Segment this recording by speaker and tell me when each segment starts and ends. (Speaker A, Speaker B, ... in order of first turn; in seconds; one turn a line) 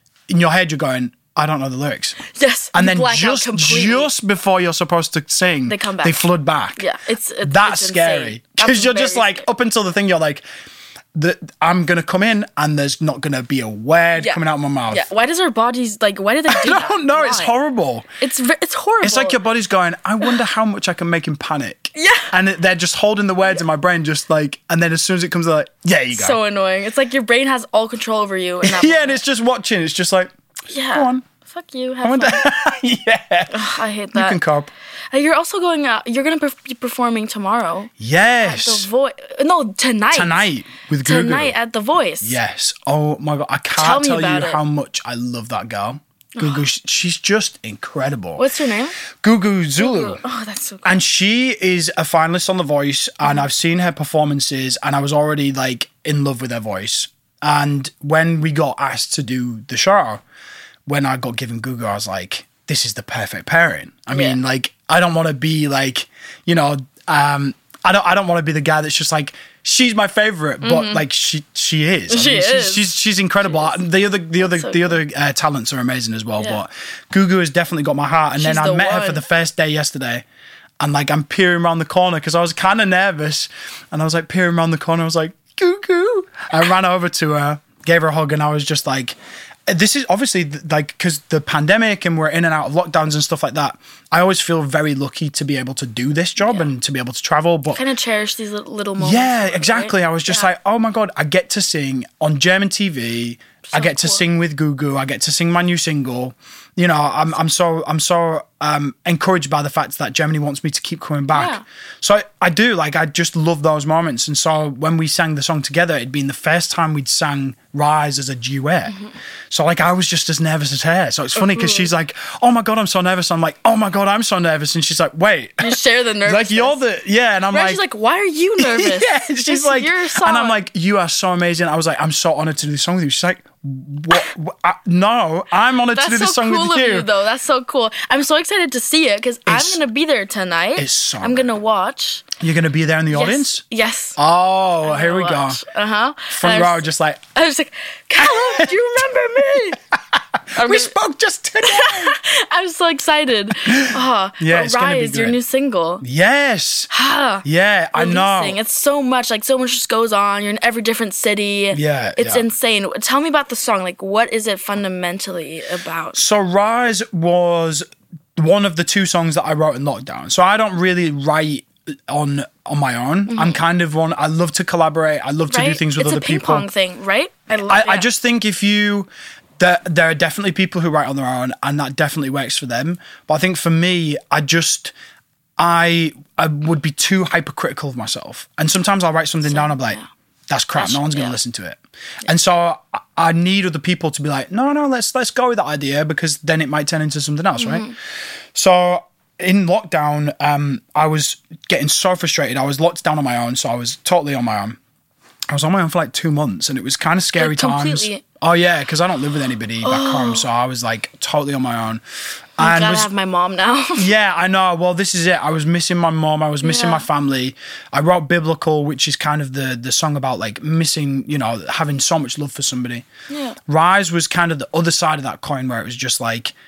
Speaker A: 0.3-2.2
Speaker B: 2.3-4.1
Speaker A: 2.7-6.8
Speaker B: 5.7-9.4
Speaker A: 7.4-10.4
Speaker A: 11.1-15.1
Speaker B: 14.2-17.5
Speaker A: 16.5-18.1
Speaker B: 18.2-19.4
Speaker A: 19.0-26.4
Speaker B: 21.9-22.3
Speaker B: 26.1-29.2
Speaker A: 28.6-30.3
Speaker B: 30.7-32.5
Speaker A: 30.9-31.2
Speaker A: 32.0-34.7
Speaker B: 33.5-34.4
Speaker B: 35.1-37.9
Speaker A: 38.0-38.9
Speaker B: 38.4-40.5
Speaker A: 40.1-41.5
Speaker B: 41.0-42.4
Speaker A: 42.2-48.5
Speaker B: 43.8-44.6
Speaker B: 46.4-46.6
Speaker B: 48.4-49.0
Speaker A: 49.2-50.2
Speaker B: 49.8-51.0
Speaker A: 50.8-60.2
Speaker A: 60.9-80.2
Speaker B: 64.1-64.4
Speaker B: 70.6-71.0
Speaker B: 72.1-72.9
Speaker B: 73.5-73.7
Speaker B: 74.4-75.0
Speaker B: 78.4-79.2
Speaker A: 80.8-89.2
Speaker A: 89.7-97.8
Speaker B: 96.4-96.7
Speaker B: 97.7-100.5
Speaker A: 99.0-119.0
Speaker B: 103.7-104.2
Speaker B: 111.3-111.6
Speaker A: 119.5-127.8
Speaker B: 121.4-121.9
Speaker B: 125.6-126.8
Speaker B: 127.5-130.6
Speaker A: 128.6-137.1
Speaker B: 135.9-142.3
Speaker A: 139.5-139.8
Speaker A: 140.8-141.5
Speaker A: 142.4-143.6
Speaker B: 143.1-144.2
Speaker A: 144.2-145.6
Speaker B: 144.8-149.8
Speaker A: 146.3-147.2
Speaker A: 148.2-148.8
Speaker A: 149.7-152.2
Speaker B: 150.6-150.9
Speaker B: 151.6-156.0
Speaker A: 153.7-155.4
Speaker A: 156.0-156.9
Speaker B: 156.9-166.2
Speaker A: 157.4-158.6
Speaker A: 161.7-162.4
Speaker A: 166.2-167.8
Speaker A: 168.4-176.7
Speaker B: 173.3-173.6
Speaker B: 175.5-178.1
Speaker A: 177.7-179.1
Speaker A: 179.6-184.9
Speaker A: 185.6-197.9
Speaker B: 189.4-190.1
Speaker B: 190.8-191.4
Speaker B: 197.6-197.9
Speaker A: 198.5-204.8
Speaker A: 205.5-212.0
Speaker B: 207.4-208.2
Speaker B: 209.8-210.4
Speaker A: 212.6-213.1
Speaker B: 212.6-214.1
Speaker A: 214.0-223.1
Speaker B: 216.6-217.1
Speaker B: 223.3-223.6
Speaker A: 223.7-226.5